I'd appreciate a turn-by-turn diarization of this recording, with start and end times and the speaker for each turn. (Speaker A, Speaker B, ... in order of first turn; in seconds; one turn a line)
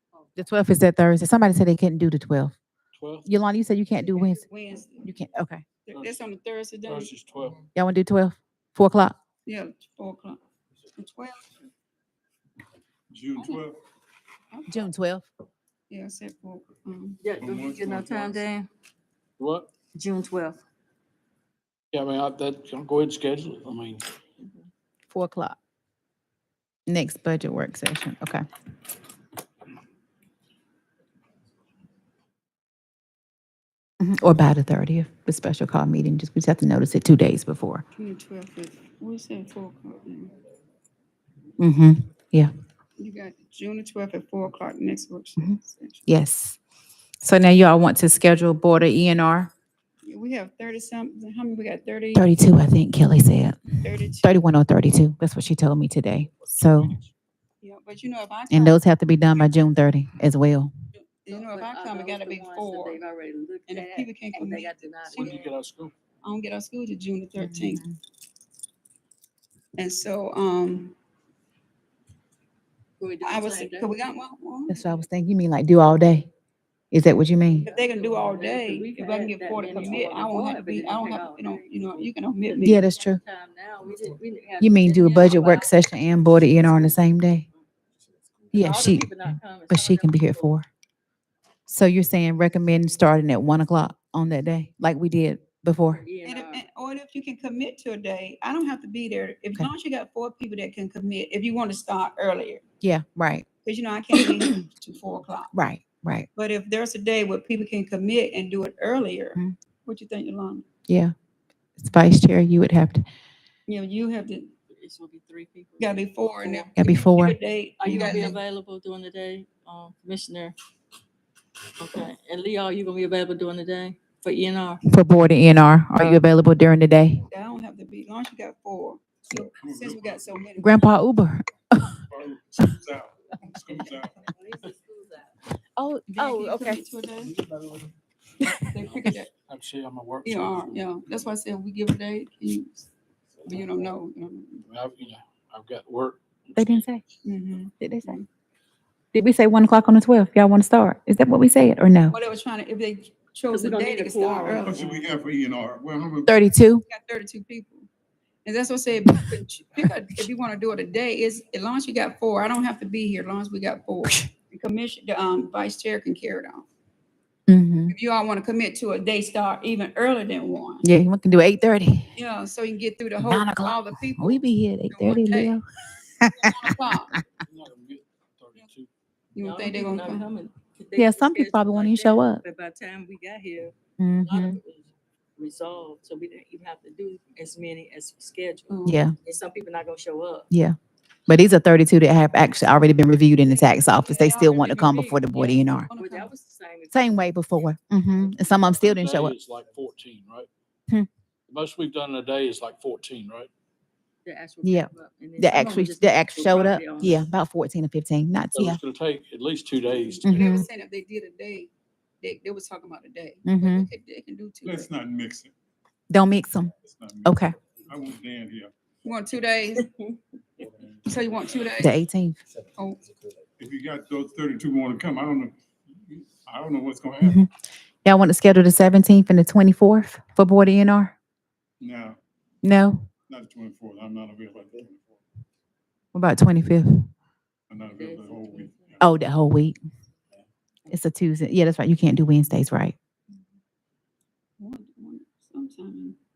Speaker A: 0.4-2.5
Speaker B: 2.9-3.3
Speaker A: 3.2-4.4
Speaker C: 4.3-5.1
Speaker A: 5.0-5.6
Speaker C: 5.8-7.1
Speaker B: 5.9-6.2
Speaker B: 6.8-7.7
Speaker A: 7.7-9.2
Speaker C: 9.4-10.4
Speaker C: 10.9-11.5
Speaker D: 13.1-13.8
Speaker C: 14.5-14.8
Speaker A: 14.7-15.3
Speaker C: 15.9-17.2
Speaker E: 17.2-18.7
Speaker D: 17.3-18.5
Speaker B: 19.4-19.7
Speaker E: 19.9-20.6
Speaker B: 21.9-24.1
Speaker E: 24.4-24.7
Speaker A: 25.1-25.6
Speaker A: 26.9-28.4
Speaker A: 34.0-37.8
Speaker C: 38.0-40.3
Speaker A: 41.6-42.5
Speaker C: 43.0-46.0
Speaker A: 45.4-46.6
Speaker A: 47.2-49.5
Speaker C: 50.0-52.3
Speaker A: 52.1-53.6
Speaker C: 53.8-54.3
Speaker A: 54.2-57.0
Speaker C: 57.6-58.8
Speaker A: 58.5-60.7
Speaker C: 60.9-63.0
Speaker E: 61.3-65.5
Speaker C: 63.7-65.3
Speaker B: 65.1-65.9
Speaker C: 66.2-67.8
Speaker A: 67.4-68.0
Speaker C: 69.8-70.9
Speaker E: 73.0-74.0
Speaker C: 73.2-74.8
Speaker A: 74.7-76.3
Speaker A: 76.9-77.7
Speaker E: 77.5-85.9
Speaker C: 77.6-82.8
Speaker A: 82.6-83.2
Speaker A: 84.6-87.4
Speaker E: 86.5-87.0
Speaker A: 88.5-89.2
Speaker E: 88.5-90.5
Speaker A: 89.7-90.7
Speaker A: 91.7-96.0
Speaker E: 95.9-96.6
Speaker C: 96.2-102.6
Speaker A: 102.8-103.4
Speaker C: 103.6-105.5
Speaker A: 105.5-106.3
Speaker C: 106.3-110.6
Speaker A: 110.9-111.1
Speaker A: 111.8-113.0
Speaker C: 113.7-114.5
Speaker E: 114.7-116.7
Speaker C: 115.8-118.4
Speaker A: 116.8-117.3
Speaker E: 117.8-120.5
Speaker A: 117.9-118.2
Speaker E: 121.8-124.8
Speaker A: 124.9-127.2
Speaker C: 127.3-131.0
Speaker D: 129.5-130.4
Speaker A: 130.6-132.0
Speaker D: 132.1-134.3
Speaker E: 133.9-135.3
Speaker A: 135.8-136.8
Speaker C: 136.1-137.4
Speaker B: 137.4-137.9
Speaker C: 138.5-139.3
Speaker B: 138.8-140.8
Speaker C: 140.2-142.9
Speaker C: 143.4-144.6
Speaker B: 144.6-146.8
Speaker A: 146.6-147.0
Speaker C: 147.2-148.2
Speaker A: 147.8-148.2
Speaker A: 149.1-152.2
Speaker C: 152.1-154.7
Speaker E: 153.5-154.8
Speaker D: 154.6-156.3
Speaker A: 156.2-156.8
Speaker C: 156.8-157.9
Speaker C: 158.4-166.7
Speaker A: 167.5-167.9
Speaker C: 167.9-170.8
Speaker A: 170.8-172.1
Speaker C: 172.1-175.6
Speaker A: 173.2-177.2
Speaker C: 176.3-177.2
Speaker B: 177.4-178.9
Speaker C: 179.3-180.3
Speaker E: 179.4-190.5
Speaker A: 180.9-182.4
Speaker A: 184.0-184.6
Speaker C: 188.7-189.0
Speaker A: 188.8-189.1
Speaker A: 190.5-195.9
Speaker C: 193.4-196.3
Speaker E: 195.9-197.7
Speaker A: 196.9-199.3
Speaker B: 198.7-200.5
Speaker B: 201.5-203.5
Speaker E: 204.2-207.3
Speaker A: 204.6-208.8
Speaker B: 208.5-210.3
Speaker C: 210.2-214.9
Speaker A: 210.2-210.6
Speaker A: 213.4-213.9
Speaker D: 214.6-215.5
Speaker A: 216.1-216.7
Speaker D: 216.8-218.7
Speaker A: 217.2-217.6
Speaker C: 219.0-219.8
Speaker E: 219.8-220.2
Speaker D: 220.7-221.2
Speaker C: 221.1-222.0
Speaker A: 221.8-222.4
Speaker D: 223.6-227.4
Speaker A: 227.2-227.5
Speaker A: 228.0-231.1
Speaker D: 231.8-232.2
Speaker A: 232.6-233.1
Speaker D: 233.3-235.2
Speaker A: 236.1-237.1
Speaker D: 237.7-239.1
Speaker E: 237.8-239.0
Speaker A: 239.0-239.8
Speaker A: 240.9-242.9
Speaker C: 244.6-246.2